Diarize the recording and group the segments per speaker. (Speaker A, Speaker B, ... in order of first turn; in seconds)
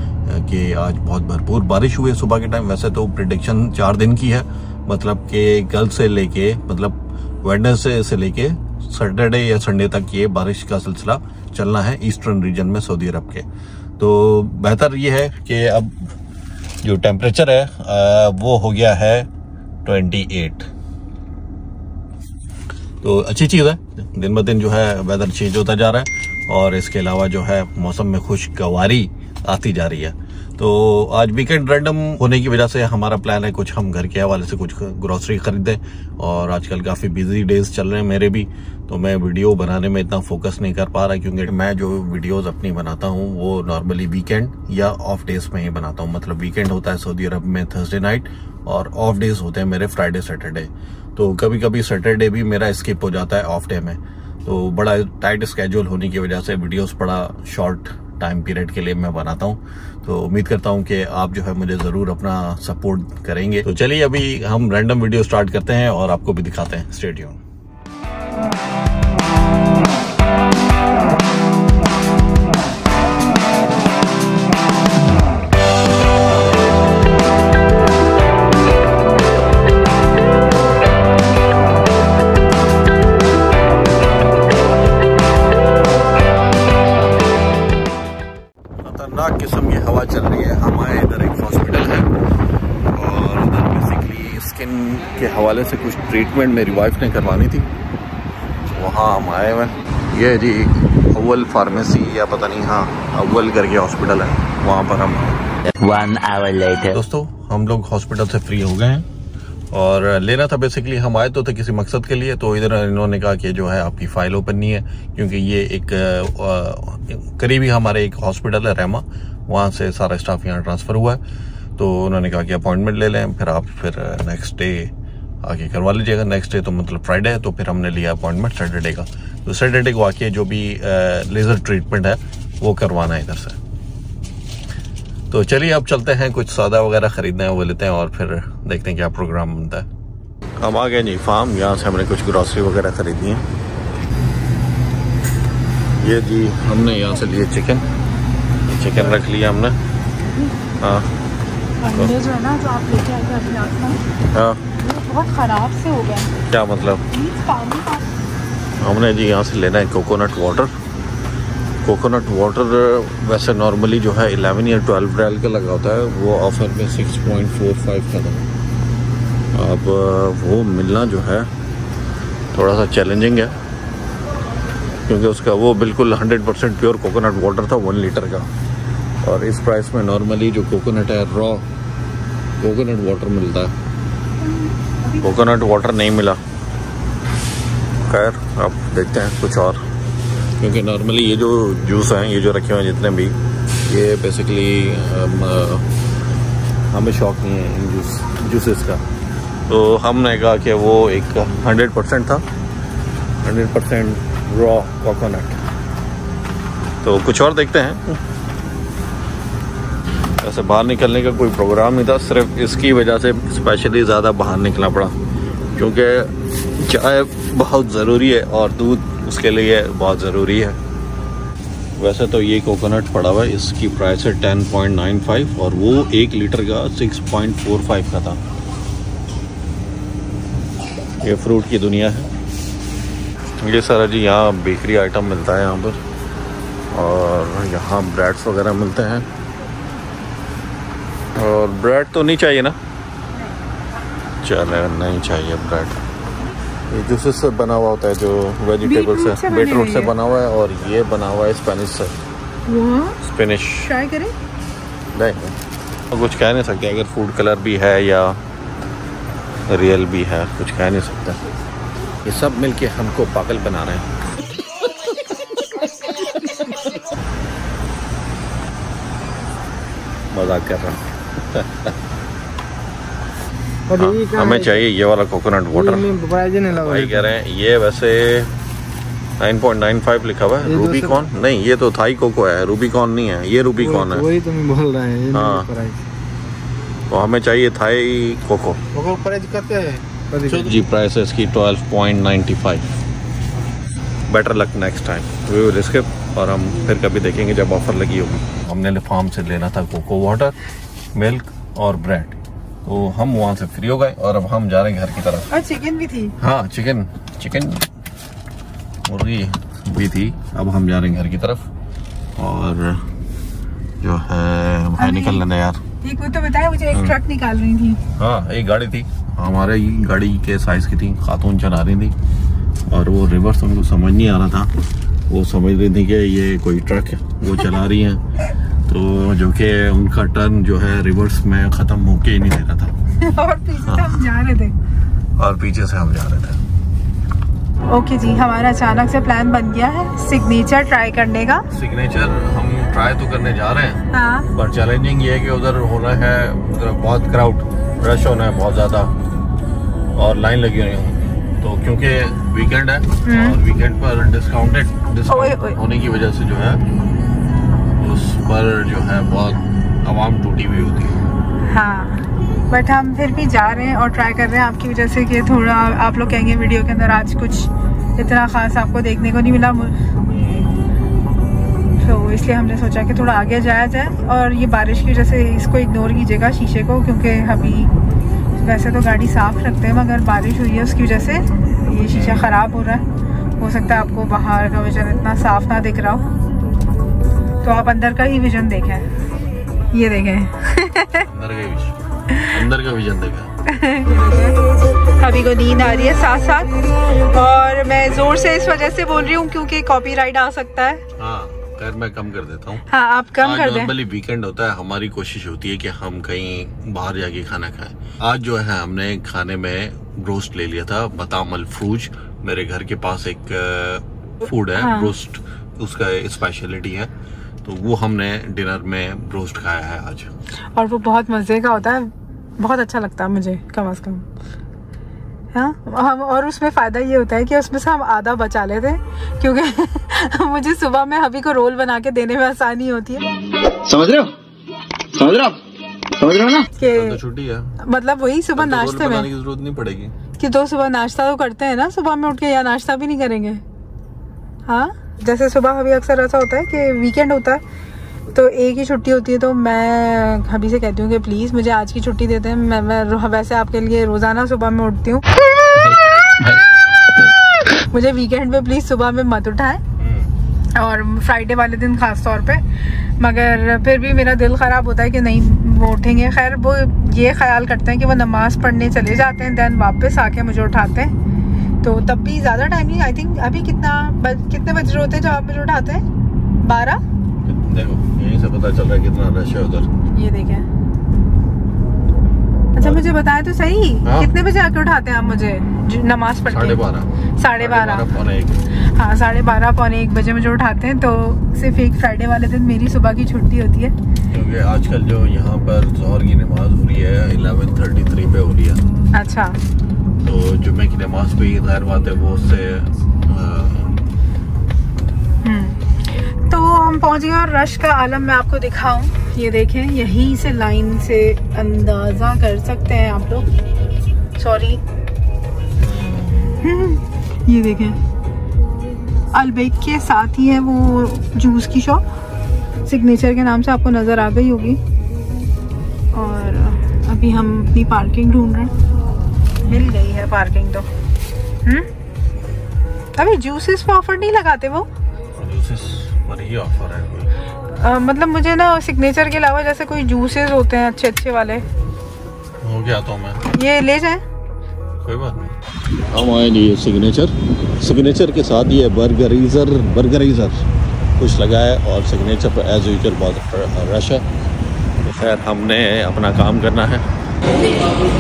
Speaker A: 0.3-13.5, 14.0-16.1, 16.8-19.3, 19.9-20.7, 23.0-67.4, 88.8-92.2, 92.9-97.7, 98.7-105.4, 106.9-109.1, 109.7-121.2, 121.8-124.9, 125.4-133.6, 135.3-139.9, 140.6-143.4, 146.0-147.8, 148.7-149.8, 150.8-151.1, 154.3-154.6, 156.5-157.0, 158.8-160.7, 161.8-168.5, 169.5-171.5, 172.5-173.6, 175.1-178.5, 179.2-181.7, 182.6-183.7, 185.2-186.4, 188.1-189.8, 190.6-195.9, 196.9-199.0, 199.7-202.4, 203.4-205.7, 207.0-208.2, 210.4-215.2, 215.8-220.8, 222.0-228.4, 231.2-232.3, 233.6-236.0, 236.9-239.3, 241.4-242.8, 244.4-246.0, 246.9-252.1, 253.2-253.9, 255.1-255.6, 256.1-258.4, 259.7-261.4, 262.2-264.1, 270.3-271.9, 274.0-276.1, 276.7-278.5, 279.4-284.3, 285.3-285.7, 287.1-288.8, 290.5-292.9, 294.3-300.6, 301.1-305.5, 306.4-307.9, 309.1-311.7, 312.4-313.1, 314.0-315.8, 318.2-322.1, 322.9-324.7, 325.3-328.2, 328.9-332.9, 333.8-334.2, 335.4-336.6, 341.7-344.0, 344.5-349.1, 350.1-356.8, 358.0-361.2, 370.3-370.8, 382.1-382.5, 391.2-393.5, 401.2-402.9, 403.4-417.1, 417.6-420.3, 436.8-437.8, 438.6-440.1, 460.0-460.3, 477.4-479.9, 484.1-484.3, 486.5-488.6, 494.3-498.8, 500.2-503.9, 515.8-516.6, 535.4-537.3, 542.6-543.4, 545.0-550.7, 551.2-554.3, 555.0-557.1
Speaker B: 105.8-106.9, 433.9-434.3, 435.1-435.6, 436.2-436.7, 455.9-456.6
Speaker C: 151.8-154.0, 154.7-156.3, 157.1-158.1, 184.4-185.3, 248.8-250.1, 252.7-253.2, 253.8-254.3, 305.5-306.4, 315.0-315.4, 316.0-318.0, 333.2-334.7, 337.9-341.6, 344.1-344.5, 353.2-353.6, 355.3-355.8, 361.7-370.0, 372.0-377.9, 378.6-383.1, 383.6-386.3, 387.6-389.1, 389.9-391.3, 393.7-394.7, 395.2-401.0, 402.9-403.9, 414.7-415.1, 420.8-424.2, 425.5-433.2, 436.8-437.2, 437.8-439.3, 440.4-443.6, 444.7-447.6, 448.3-455.2, 457.8-459.8, 460.8-471.1, 471.8-476.0, 476.6-477.0, 480.1-480.7, 482.8-486.8, 487.4-488.1, 488.7-493.9, 499.1-499.6, 505.4-513.5, 514.4-514.8, 516.6-518.0, 519.3-522.0, 522.9-524.8, 526.1-528.7, 529.6-530.9, 533.1-534.9, 537.7-541.7, 543.5-544.2
Speaker D: 273.9-274.7, 275.8-277.2, 280.7-281.2, 283.9-286.0, 288.9-290.6